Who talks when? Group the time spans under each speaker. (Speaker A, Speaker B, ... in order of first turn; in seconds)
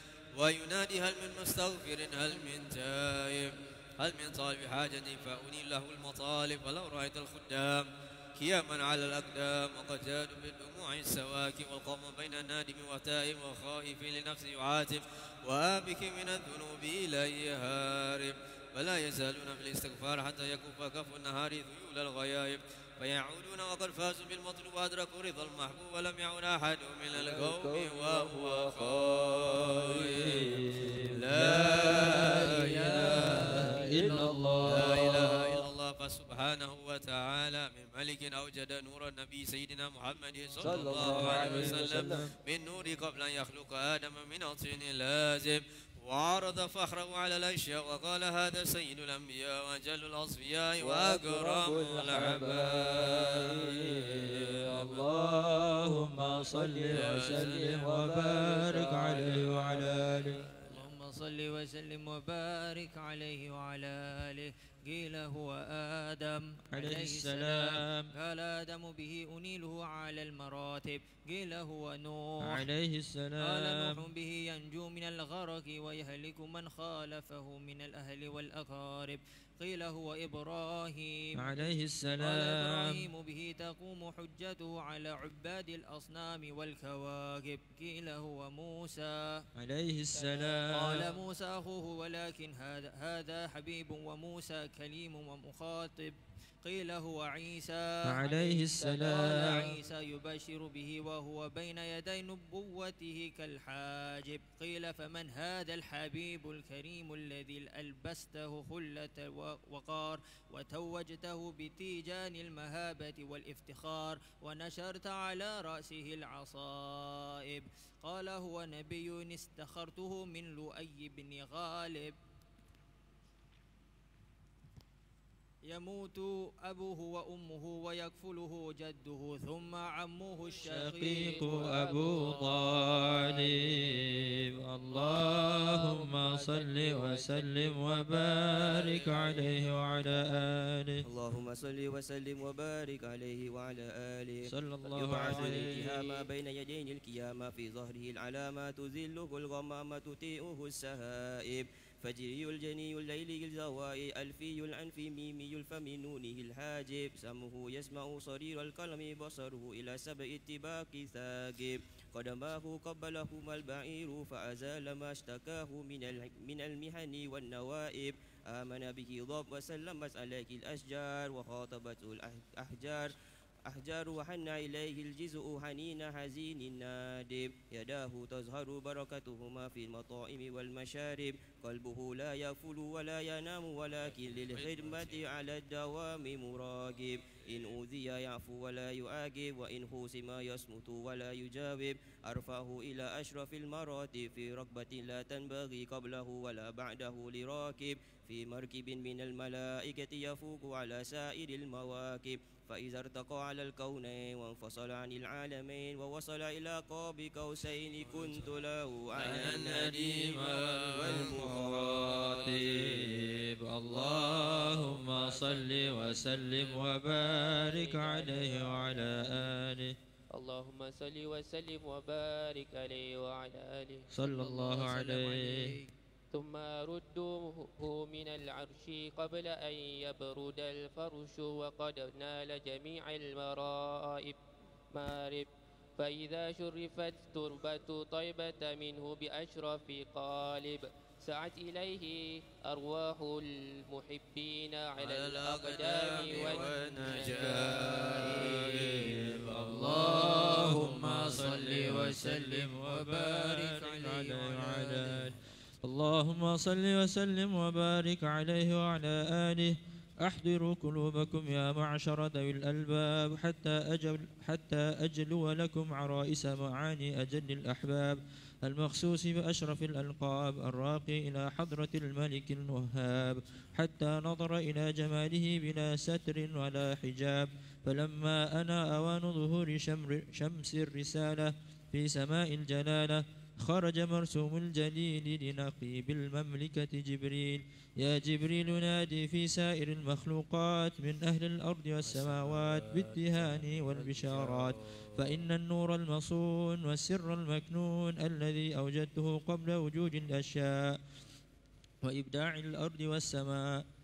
Speaker A: 0.3-33.8, 34.6-55.0, 56.9-58.0, 184.5-185.2, 209.1-211.4, 245.0-250.0
Speaker B: 27.2-28.7, 29.5-35.4, 40.6-42.3, 50.8-60.4, 66.7-68.1, 72.4-74.0, 81.4-83.0, 89.5-91.0, 98.0-99.8, 130.6-141.0, 144.5-146.0, 211.1-219.9, 224.1-225.7, 248.2-301.0, 302.0-303.8
Speaker C: 33.0-34.6, 58.5-58.9, 60.7-72.7, 73.4-81.6, 82.2-89.5, 90.7-122.2, 125.7-133.6, 136.0-136.9, 224.2-225.9, 249.6-255.2
Speaker D: 131.4-132.4, 144.9-145.8, 217.6-218.8, 220.3-224.1, 226.3-234.4, 234.9-248.1
Speaker E: 141.0-173.1, 173.7-212.6